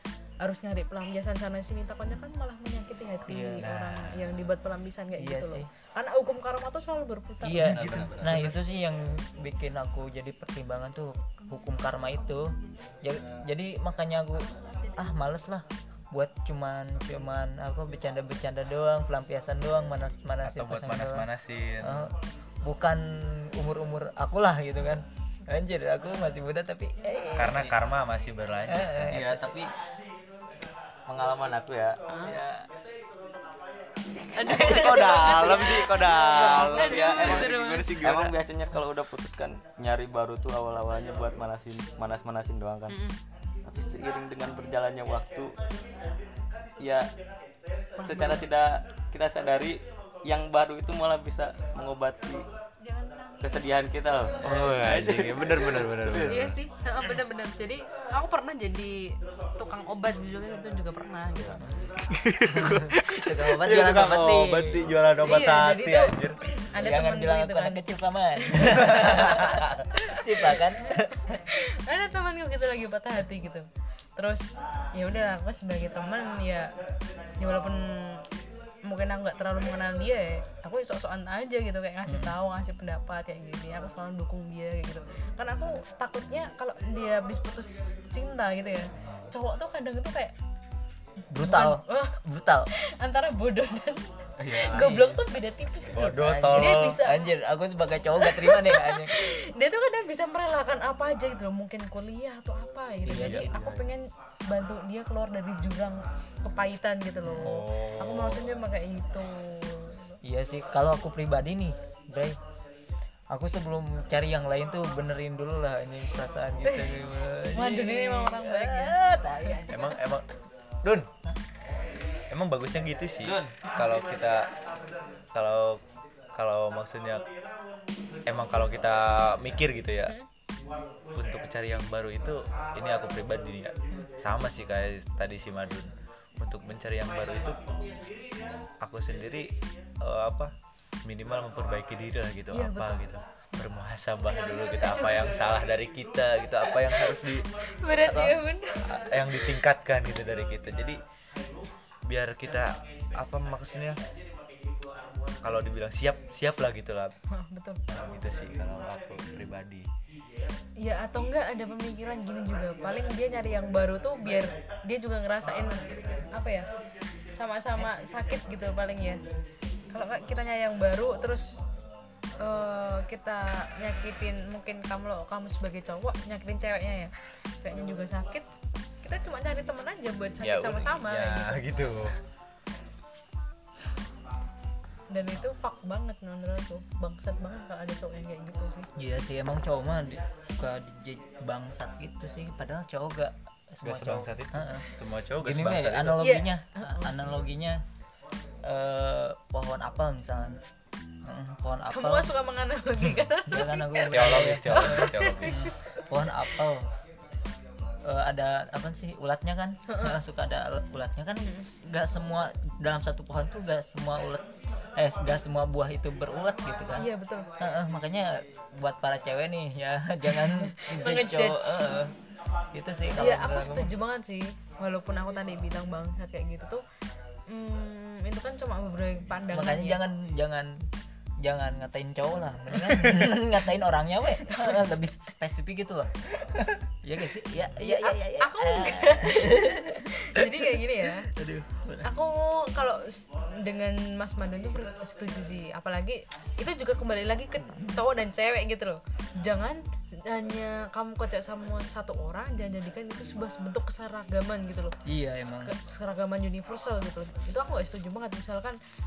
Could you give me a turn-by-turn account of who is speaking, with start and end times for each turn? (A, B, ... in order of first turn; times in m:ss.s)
0:00.4-0:07.9 A
0:03.3-0:03.7 B
0:03.6-0:04.4 C
0:05.2-0:05.7 B
0:07.4-0:21.3 B
0:07.6-0:08.6 D
0:07.6-0:08.5 C
0:20.4-0:22.1 C
0:21.8-0:22.1 B
0:22.6-0:27.7 B
0:27.4-0:29.2 C
0:28.7-0:29.6 B
0:29.1-0:29.7 D
0:31.1-0:32.0 D
0:32.1-0:32.4 A
0:32.2-0:32.7 B
0:34.3-0:37.9 A
0:34.5-0:35.0 B
0:34.5-0:38.4 C
0:35.2-0:43.0 D
0:42.9-0:43.2 A
0:43.6-0:45.5 D
0:46.8-0:47.1 D
0:48.0-0:48.4 A
0:48.0-0:52.4 D
0:52.9-0:53.6 A
0:53.4-0:56.5 D
0:54.4-0:56.6 C
0:56.2-1:01.6 A
1:02.0-1:06.4 C
1:02.5-1:04.9 B
1:05.2-1:07.8 A
1:06.7-1:11.4 B
1:08.4-1:09.4 A
1:08.8-1:09.8 C
1:10.1-1:16.7 A
1:17.4-1:18.2 A
1:18.9-1:30.3 A
1:22.0-1:22.4 B
1:29.0-1:29.3 D
1:31.3-1:32.7 B
1:31.4-1:32.2 A
1:32.8-1:37.3 A
1:34.4-1:35.1 D
1:34.7-1:35.2 B
1:35.9-1:37.0 C
1:36.2-1:39.2 B
1:38.2-1:50.2 A
1:43.0-1:43.8 B
1:43.2-1:43.4 C
1:47.2-1:47.5 B
1:47.4-1:48.4 C
1:50.2-1:52.4 B
1:53.3-2:00.0 B
1:56.6-1:59.0 A
1:59.7-2:00.3 C
2:00.8-2:01.1 C
2:02.3-2:04.5 C
2:03.2-2:03.6 D
2:05.3-2:05.8 C
2:06.4-2:07.2 C
2:08.3-2:10.1 C
2:11.1-2:17.6 C
2:18.6-2:19.5 C
2:20.0-2:20.5 C
2:21.0-2:27.4 C
2:22.5-2:23.0 A
2:24.8-2:25.3 A
2:26.7-2:27.1 A
2:27.8-2:29.5 A
2:28.0-2:31.0 C
2:32.1-2:34.0 C
2:35.4-2:37.1 C
2:37.3-2:37.8 A
2:37.9-2:39.9 C
2:40.8-2:46.7 A
2:47.3-2:49.2 A
2:49.9-2:51.6 A
2:52.4-2:58.5 A
2:59.0-3:02.2 A
3:00.4-3:02.2 C
3:05.1-3:08.9 A
3:09.0-3:14.9 B
3:13.8-3:16.2 C
3:15.4-3:17.8 B
3:16.2-3:17.4 A
3:18.6-3:20.6 B
3:21.2-3:22.3 B
3:21.9-3:26.0 A
3:23.5-3:26.9 B
3:24.1-3:25.7 C
3:28.0-3:34.4 B
3:29.9-3:30.2 A
3:35.0-3:42.1 B
3:37.0-3:37.5 A
3:40.3-3:42.0 A
3:42.7-3:43.9 B
3:43.2-3:46.8 A
3:47.5-3:50.0 A
3:49.5-3:50.9 B
3:51.4-4:02.1 B
3:57.8-4:01.3 A
4:02.0-4:18.8 A
4:07.6-4:08.0 B
4:15.0-4:15.7 B